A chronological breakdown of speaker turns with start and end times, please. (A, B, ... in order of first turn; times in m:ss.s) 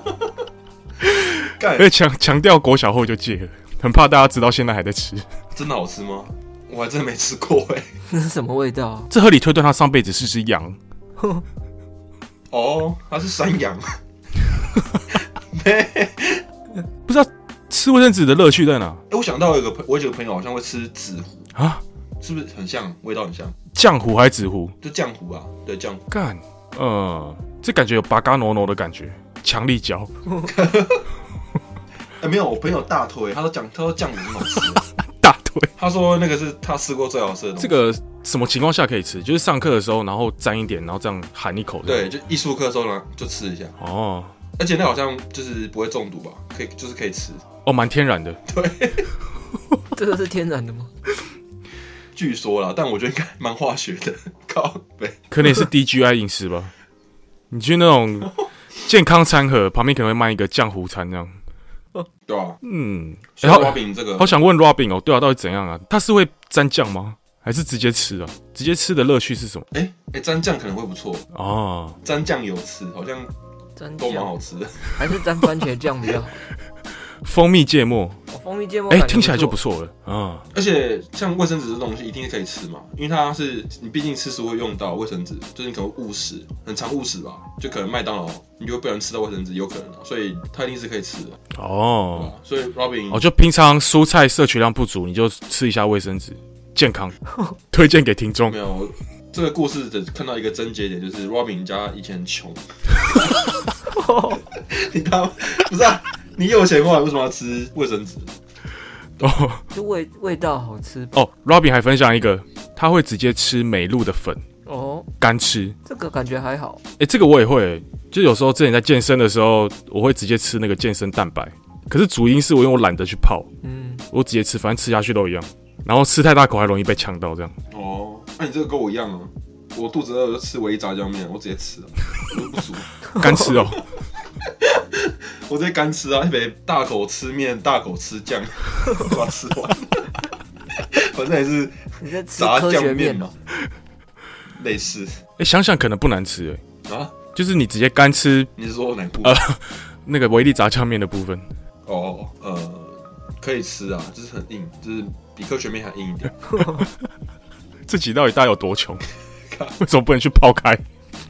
0:01.0-0:05.2 A
0:01.6-0:01.9 B
0:05.5-0:07.8 B
0:08.1-0:09.1 C
0:09.1-0:10.8 A
0:12.5-0:14.0 B
0:15.1-0:16.4 B
0:17.0-0:19.0 A
0:19.1-0:21.5 B
0:21.5-0:21.8 A
0:22.2-0:23.6 B
0:23.7-0:24.7 A
0:24.8-0:26.0 B
0:26.1-0:30.1 A
0:30.4-0:31.1 B
0:32.2-0:34.8 B
0:35.0-0:35.7 A
0:35.8-0:37.8 B
0:37.6-0:42.1 A
0:41.8-0:43.7 B
0:43.8-0:44.3 A
0:44.6-0:47.4 B
0:47.6-0:48.4 A
0:48.5-0:49.1 B
0:49.9-0:50.9 C
0:52.1-0:55.2 B
0:55.3-0:56.7 A
0:57.5-1:01.3 A
1:02.3-1:02.6 B
1:02.6-1:09.7 A
1:03.4-1:04.4 B
1:09.7-1:11.2 B
1:11.3-1:12.0 A
1:12.0-1:13.3 B
1:13.8-1:14.3 C
1:14.0-1:15.2 B
1:14.9-1:16.4 C
1:17.2-1:18.2 A
1:18.3-1:19.6 C
1:18.9-1:20.4 A
1:20.5-1:31.4 B
1:31.5-1:32.3 A
1:32.1-1:33.2 B
1:33.1-1:37.2 A
1:37.7-1:38.6 A
1:38.5-1:43.4 B
1:43.9-1:44.4 C
1:44.5-1:48.3 B
1:49.2-1:49.6 A
1:49.7-1:51.2 C
1:51.1-1:54.4 A
1:54.6-1:55.1 C
1:55.2-1:55.8 A
1:55.8-1:56.8 C
1:57.0-2:03.5 A
2:03.6-2:04.0 C
2:04.1-2:07.5 A
2:07.7-2:12.9 B
2:13.1-2:13.8 A
2:14.4-2:23.3 B
2:22.0-2:23.2 C
2:24.5-2:25.2 B
2:25.4-2:26.6 A
2:26.8-2:27.2 B
2:27.3-2:28.5 A
2:28.6-2:29.4 B
2:29.2-2:31.4 A
2:31.8-2:36.7 B
2:37.9-2:39.0 A
2:39.5-2:39.8 B
2:39.8-2:40.8 A